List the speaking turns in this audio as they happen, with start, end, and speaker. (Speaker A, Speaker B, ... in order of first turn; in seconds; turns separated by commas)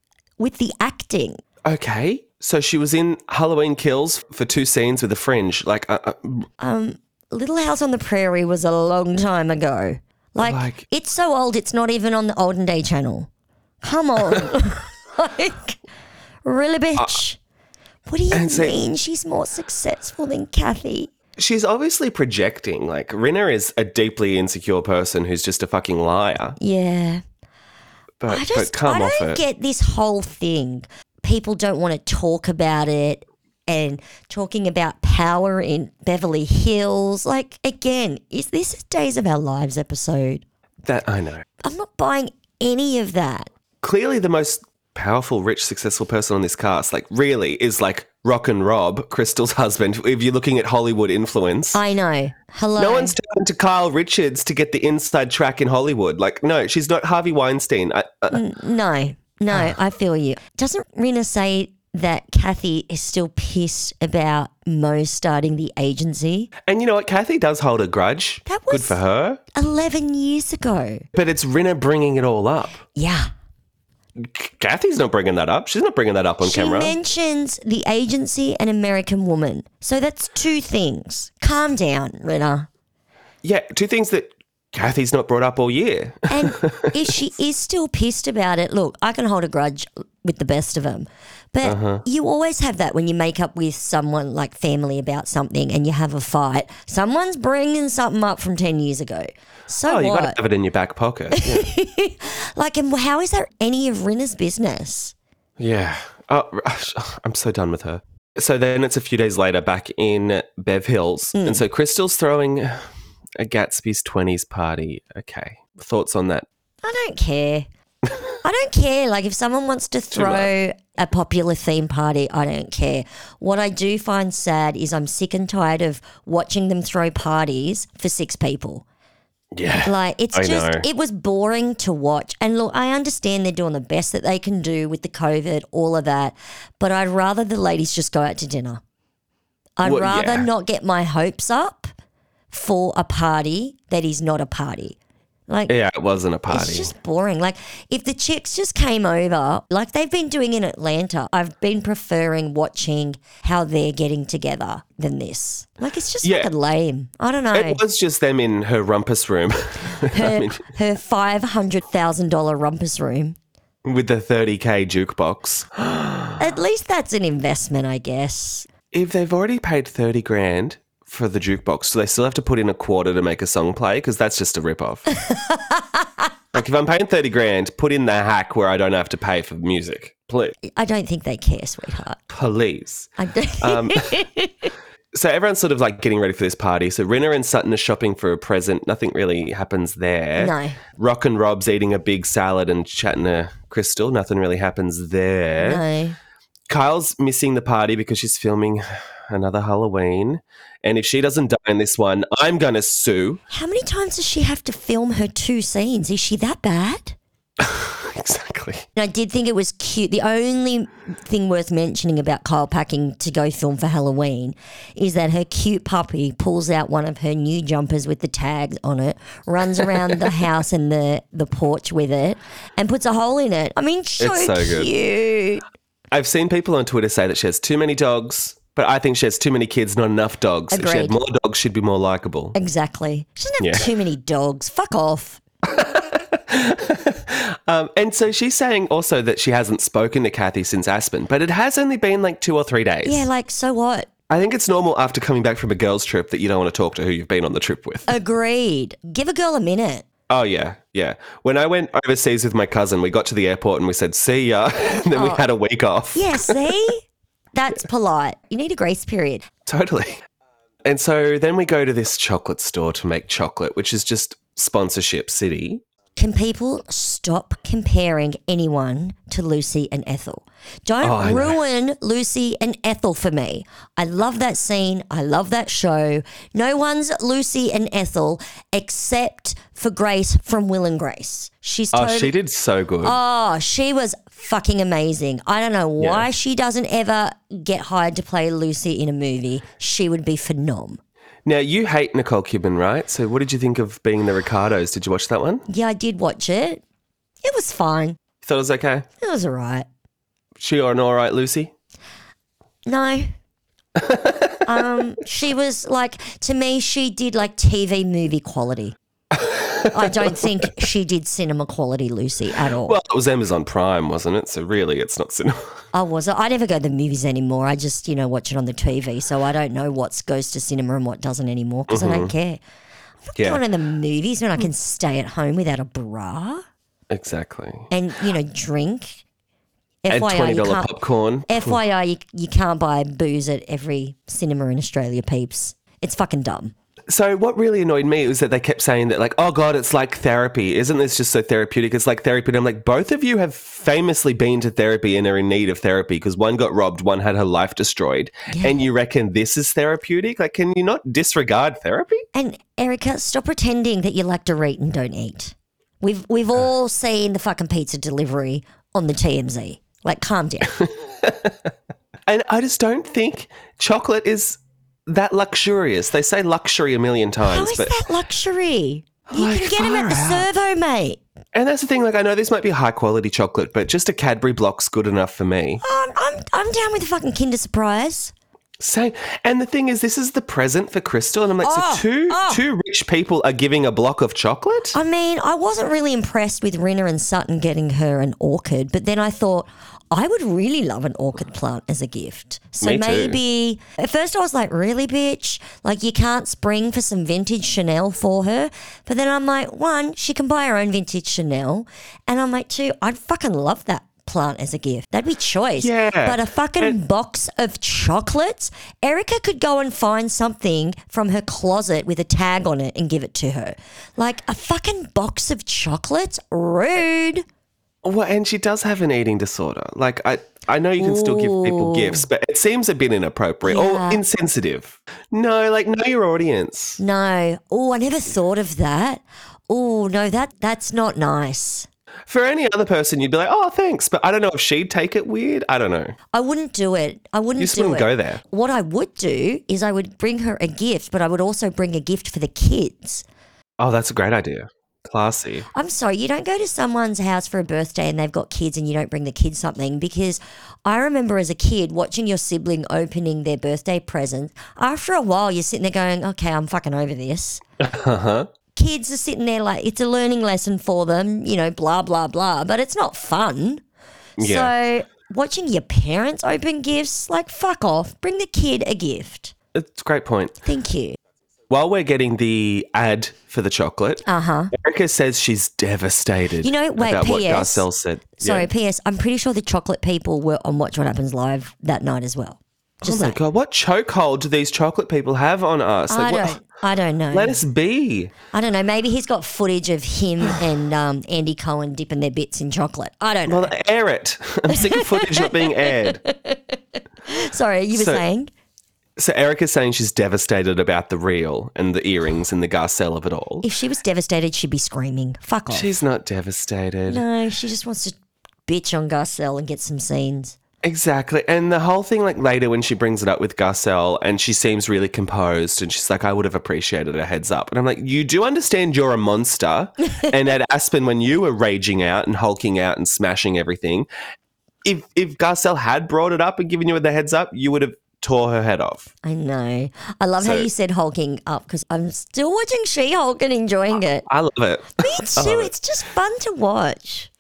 Speaker A: 0.4-1.4, Speaker B: 1.6-6.5, Speaker A: 6.6-13.3, Speaker B: 10.4-10.8, Speaker A: 13.8-15.8, Speaker A: 16.4-17.4, Speaker A: 18.1-21.1, Speaker B: 18.3-18.8, Speaker B: 21.4-26.6, Speaker A: 26.6-27.2, Speaker B: 28.2-29.4, Speaker A: 28.3-40.4, Speaker B: 40.8-41.4, Speaker A: 41.6-43.5, Speaker B: 43.8-51.8, Speaker A: 51.7-53.2, Speaker B: 52.8-58.4, Speaker A: 58.3-66.5, Speaker B: 66.7-69.4, Speaker A: 68.5-69.0, Speaker A: 69.5-71.0, Speaker B: 71.1-72.8, Speaker A: 73.0-73.3, Speaker B: 74.2-77.0, Speaker A: 76.4-82.7, Speaker B: 83.4-87.1, Speaker A: 86.3-100.4, Speaker B: 91.6-92.0, Speaker B: 99.8-101.7, Speaker A: 101.3-105.1, Speaker B: 105.6-116.5, Speaker A: 111.3-111.6, Speaker A: 116.8-117.7, Speaker A: 118.4-128.8, Speaker B: 120.1-120.5, Speaker B: 129.5-130.9, Speaker A: 129.8-138.8, Speaker A: 139.8-141.9, Speaker B: 139.8-140.5, Speaker A: 142.5-144.9, Speaker A: 145.5-145.7, Speaker B: 145.7-146.9, Speaker A: 146.5-157.8, Speaker B: 156.2-156.5, Speaker B: 157.5-160.6, Speaker A: 160.1-163.4, Speaker B: 163.8-166.5, Speaker A: 166.4-168.7, Speaker B: 168.9-175.1, Speaker A: 175.3-175.8, Speaker B: 176.5-180.6, Speaker A: 180.8-182.2, Speaker B: 182.3-184.1, Speaker A: 183.2-184.7, Speaker B: 185.1-195.8, Speaker A: 190.4-190.8, Speaker A: 195.6-196.2, Speaker B: 196.7-203.4, Speaker A: 203.5-207.2, Speaker B: 207.6-208.9, Speaker A: 208.9-225.6, Speaker B: 224.2-224.9, Speaker B: 226.1-232.6, Speaker A: 230.7-231.2, Speaker A: 232.6-235.4, Speaker B: 233.6-233.9, Speaker B: 235.7-243.3, Speaker A: 243.0-244.1, Speaker B: 244.3-248.1, Speaker A: 248.1-250.1, Speaker B: 250.3-256.6, Speaker A: 255.1-255.4, Speaker A: 256.1-259.4, Speaker B: 259.6-260.2, Speaker B: 260.8-265.8, Speaker A: 266.1-282.3, Speaker B: 271.0-271.6, Speaker B: 281.9-283.2, Speaker A: 283.0-291.0, Speaker B: 286.0-286.3, Speaker B: 291.4-295.6, Speaker A: 295.7-296.8, Speaker A: 297.4-298.2, Speaker B: 298.4-299.1, Speaker A: 299.2-299.9, Speaker B: 300.6-301.7, Speaker A: 302.9-303.3, Speaker B: 304.0-304.4, Speaker A: 304.6-308.9, Speaker B: 309.3-310.6, Speaker A: 309.9-312.9, Speaker B: 312.6-315.6, Speaker A: 315.9-322.6, Speaker B: 321.9-322.3, Speaker A: 323.3-326.6, Speaker B: 323.4-323.6, Speaker B: 327.1-327.9, Speaker A: 327.9-329.2, Speaker A: 330.0-331.0, Speaker B: 330.1-331.8, Speaker A: 331.5-336.7, Speaker B: 337.1-352.2, Speaker A: 348.5-348.9, Speaker A: 352.3-360.8, Speaker B: 361.2-361.5, Speaker B: 362.3-367.9, Speaker A: 367.4-371.2, Speaker B: 369.3-370.5, Speaker B: 371.5-375.8, Speaker A: 375.8-378.3, Speaker B: 378.8-385.0, Speaker A: 381.6-382.6, Speaker A: 384.9-417.4, Speaker B: 392.8-393.4, Speaker B: 405.8-406.9, Speaker B: 418.0-427.0, Speaker A: 421.0-422.3, Speaker A: 423.6-424.2, Speaker A: 427.0-431.9, Speaker B: 432.3-436.1, Speaker A: 436.3-443.2, Speaker B: 437.6-438.4, Speaker B: 443.8-445.7, Speaker A: 445.8-457.6, Speaker B: 457.8-458.5, Speaker A: 458.7-463.8, Speaker B: 464.4-464.7, Speaker A: 464.4-469.5, Speaker B: 469.7-470.6, Speaker A: 470.6-471.2, Speaker B: 471.7-478.7, Speaker A: 474.3-474.7, Speaker A: 476.6-477.9, Speaker A: 478.4-483.4, Speaker B: 483.0-486.6, Speaker A: 486.1-487.6, Speaker B: 487.3-488.3, Speaker A: 488.5-493.7, Speaker B: 493.5-496.2, Speaker A: 494.7-498.5, Speaker B: 497.9-498.2, Speaker B: 499.2-503.6, Speaker A: 503.6-505.9, Speaker B: 505.7-507.2, Speaker A: 507.1-510.6, Speaker B: 510.8-524.1, Speaker B: 524.8-529.1, Speaker A: 529.2-534.3, Speaker B: 530.4-530.7, Speaker B: 534.3-535.7, Speaker A: 535.0-537.3